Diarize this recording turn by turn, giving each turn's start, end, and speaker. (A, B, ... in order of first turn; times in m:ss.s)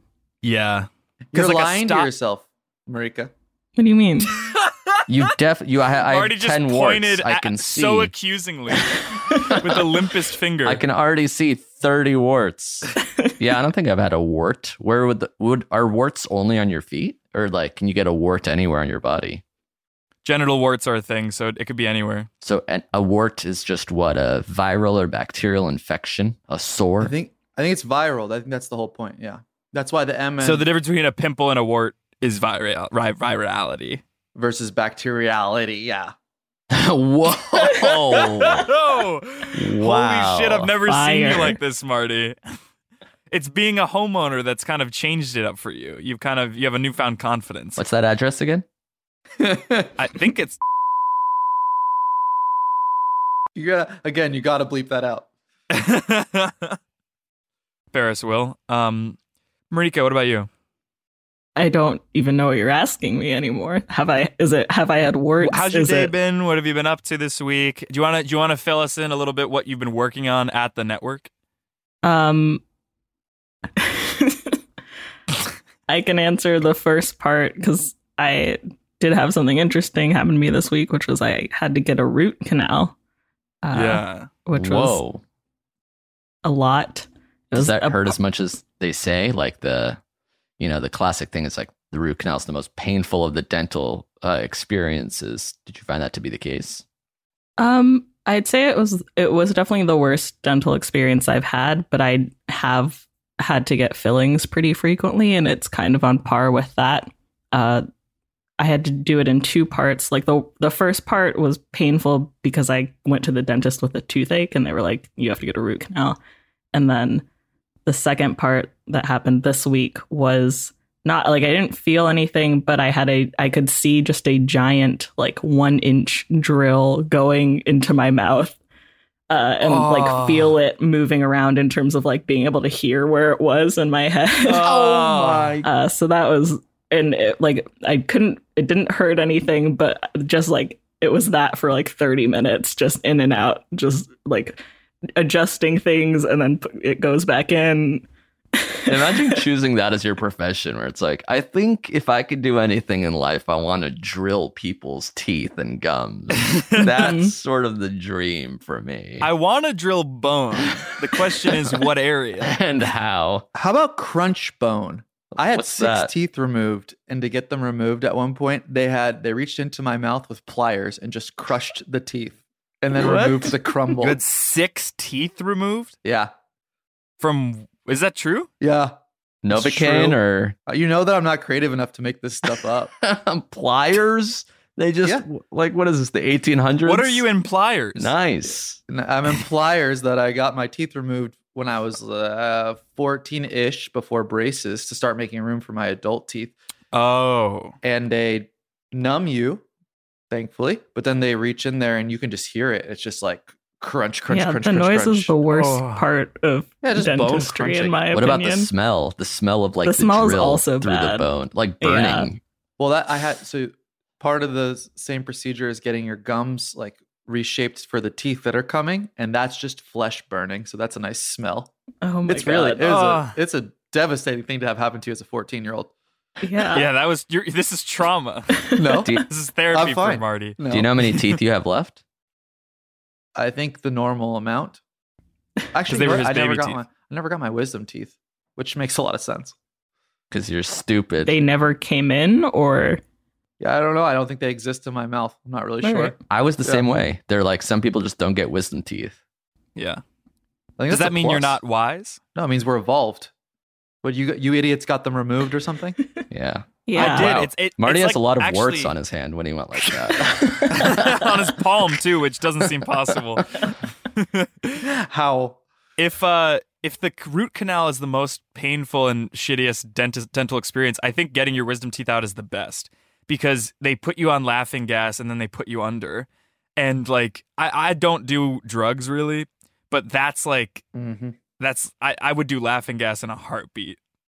0:00.4-0:02.1 A
0:01.3-0:03.3 B
0:03.8-0:04.3 C
0:05.1-0:08.1 D
0:06.0-0:10.8 A
0:09.4-0:09.8 D
0:10.6-0:19.4 D
0:20.2-0:22.3 A
0:22.4-0:27.1 D
0:27.0-0:30.6 B
0:30.4-0:34.0 A
0:34.3-0:36.1 B
0:36.7-0:38.7 D
0:37.8-0:42.4 A
0:39.5-0:40.7 D
0:40.9-0:41.6 C
0:43.3-0:47.8 A
0:47.8-0:48.6 D
0:49.4-0:49.9 B
0:50.0-0:50.6 A
0:53.5-0:55.3 B
0:55.7-0:56.8 A
0:57.9-0:59.2 A
0:59.7-1:00.5 A
1:01.6-1:06.1 C
1:05.4-1:11.3 A
1:12.0-1:12.6 C
1:13.8-1:14.6 C
1:15.9-1:22.9 C
1:23.6-1:25.0 C
1:23.7-1:24.3 A
1:24.6-1:25.2 D
1:26.4-1:28.1 C
1:27.5-1:30.0 D
1:30.6-1:36.8 D
1:37.6-1:47.8 C
1:48.6-1:56.2 C
1:56.7-1:57.2 C
1:57.8-2:08.6 C
2:09.3-2:14.7 C
2:09.6-2:10.6 A
2:14.5-2:15.6 A
2:14.5-2:15.6 B
2:15.6-2:24.6 C
2:25.2-2:28.0 C
2:28.9-2:39.3 D
2:36.8-2:37.3 C
2:39.2-2:42.6 A
2:42.4-2:43.4 D
2:43.5-2:54.2 B
2:45.4-2:46.1 D
2:52.9-2:53.6 D
2:54.0-2:55.9 A
2:56.0-2:56.3 B
2:57.2-2:58.5 A
2:58.6-2:59.0 B
2:59.4-3:00.6 D
2:59.5-3:02.9 B
3:03.0-3:07.2 D
3:06.9-3:08.1 A
3:08.0-3:08.8 D
3:08.9-3:16.5 B
3:16.9-3:17.7 A
3:17.8-3:19.6 B
3:20.3-3:25.3 B
3:24.3-3:28.7 C
3:25.5-3:26.0 A
3:26.8-3:28.0 B
3:28.1-3:32.4 D
3:29.8-3:32.3 C
3:32.8-3:41.7 B
3:42.0-3:42.8 C
3:42.3-3:45.9 B
3:42.8-3:43.4 A
3:46.4-3:46.9 C
3:46.7-3:50.6 A
3:48.8-3:51.1 B
3:50.7-3:52.0 D
3:53.4-3:54.8 B
3:55.7-3:59.5 B
3:55.9-3:56.8 A
4:00.3-4:01.4 D
4:01.2-4:03.0 C
4:03.6-4:06.9 B
4:05.8-4:06.1 C
4:06.3-4:09.2 D
4:09.8-4:10.0 A
4:10.8-4:11.6 B
4:10.9-4:12.2 A
4:12.3-4:13.3 B
4:14.0-4:16.0 B
4:16.3-4:21.3 D
4:16.8-4:17.4 C
4:16.9-4:18.9 A
4:19.9-4:24.8 A
4:24.8-4:25.6 B
4:26.0-4:40.8 A
4:40.9-4:41.4 B
4:41.6-4:44.0 A